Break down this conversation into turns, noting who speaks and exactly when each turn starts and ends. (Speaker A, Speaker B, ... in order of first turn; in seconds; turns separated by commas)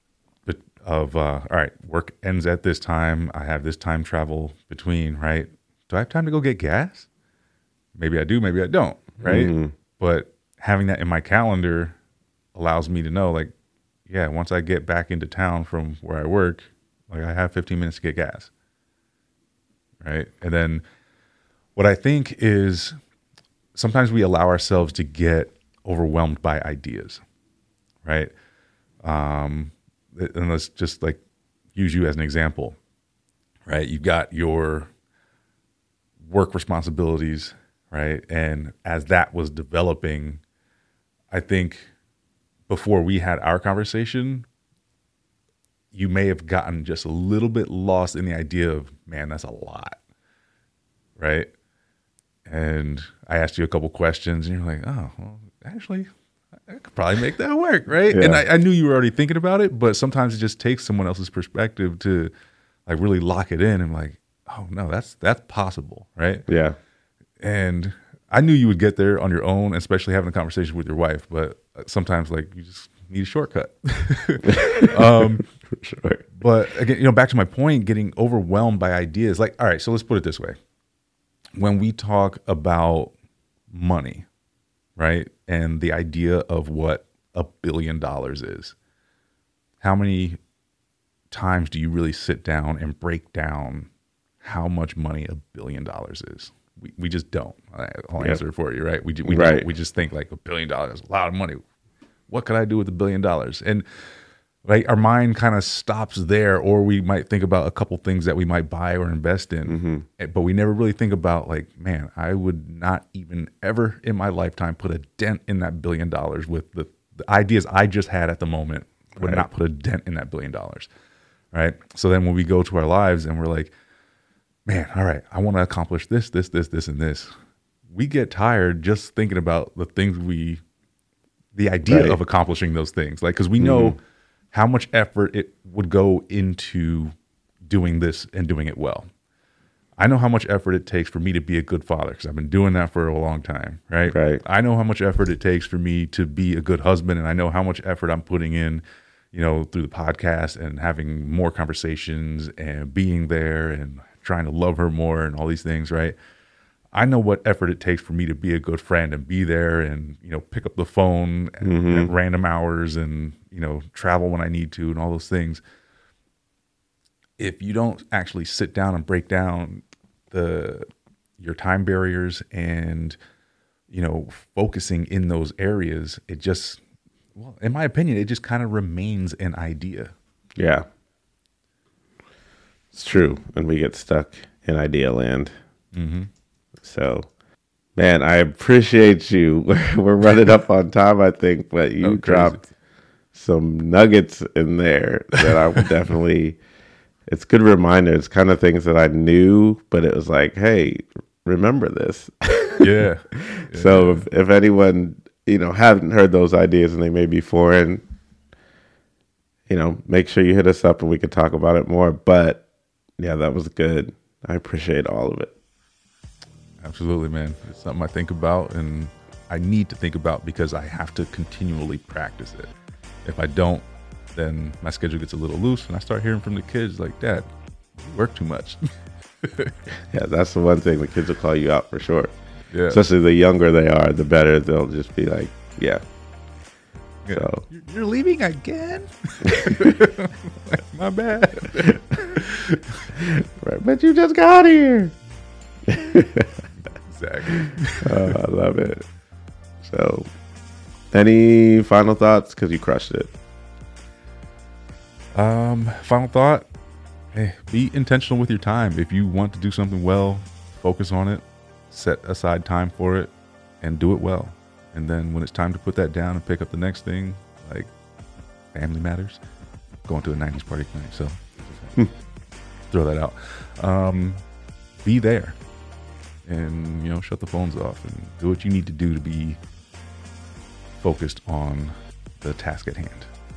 Speaker A: 0.5-7.1, Speaker A: 8.0-12.0, Speaker B: 9.2-9.7, Speaker A: 12.6-13.5, Speaker A: 14.1-18.5, Speaker A: 20.0-20.8, Speaker A: 21.8-23.0, Speaker A: 23.8-27.2, Speaker A: 28.1-28.3, Speaker A: 29.0-31.2, Speaker A: 31.8-32.8, Speaker A: 33.7-34.9, Speaker A: 36.3-40.4, Speaker A: 41.3-41.9, Speaker A: 42.7-44.5, Speaker A: 45.9-50.0, Speaker A: 51.2-51.5, Speaker A: 52.5-56.1, Speaker A: 56.7-62.3, Speaker B: 58.1-58.4, Speaker A: 62.9-66.5, Speaker B: 66.5-66.8, Speaker A: 67.4-75.5, Speaker B: 74.5-76.2, Speaker A: 76.3-80.6, Speaker A: 81.6-83.1, Speaker A: 83.7-84.3, Speaker A: 85.0-88.8, Speaker A: 89.8-90.4, Speaker A: 91.3-93.9, Speaker A: 94.4-101.6, Speaker B: 99.3-99.7, Speaker A: 102.3-103.8, Speaker A: 104.7-120.9, Speaker B: 109.7-110.1, Speaker B: 119.2-119.5, Speaker A: 121.5-123.7, Speaker A: 124.7-127.3, Speaker A: 127.9-130.6, Speaker A: 131.6-134.0, Speaker B: 131.9-132.2, Speaker B: 133.6-134.0, Speaker A: 134.5-137.1, Speaker A: 137.7-139.1, Speaker A: 140.0-156.2, Speaker B: 144.1-144.4, Speaker A: 156.9-165.6, Speaker B: 161.6-162.1, Speaker A: 167.4-170.9, Speaker A: 171.4-173.2, Speaker A: 173.9-176.8, Speaker A: 177.4-180.1, Speaker B: 180.6-180.9, Speaker B: 182.9-185.5, Speaker A: 185.9-186.3, Speaker B: 186.8-187.3, Speaker B: 188.0-192.6, Speaker A: 192.0-192.7, Speaker B: 193.3-196.6, Speaker B: 197.3-208.0, Speaker A: 202.8-204.3, Speaker B: 209.7-212.6, Speaker B: 213.2-215.5, Speaker A: 216.8-222.7, Speaker A: 223.2-227.5, Speaker A: 228.0-228.9, Speaker A: 229.4-229.8, Speaker B: 230.1-232.3, Speaker A: 232.7-233.0, Speaker B: 232.9-236.0, Speaker A: 237.2-243.0, Speaker B: 237.3-237.6, Speaker B: 239.6-240.0, Speaker B: 243.2-245.1, Speaker B: 245.9-246.6, Speaker A: 246.8-248.3, Speaker B: 248.0-249.1, Speaker B: 249.8-250.3, Speaker B: 251.1-253.3, Speaker A: 255.3-256.7, Speaker A: 257.3-267.9, Speaker A: 268.7-269.4, Speaker A: 270.1-272.0, Speaker A: 272.9-274.4, Speaker A: 275.0-275.6, Speaker A: 276.5-279.6, Speaker A: 281.0-283.3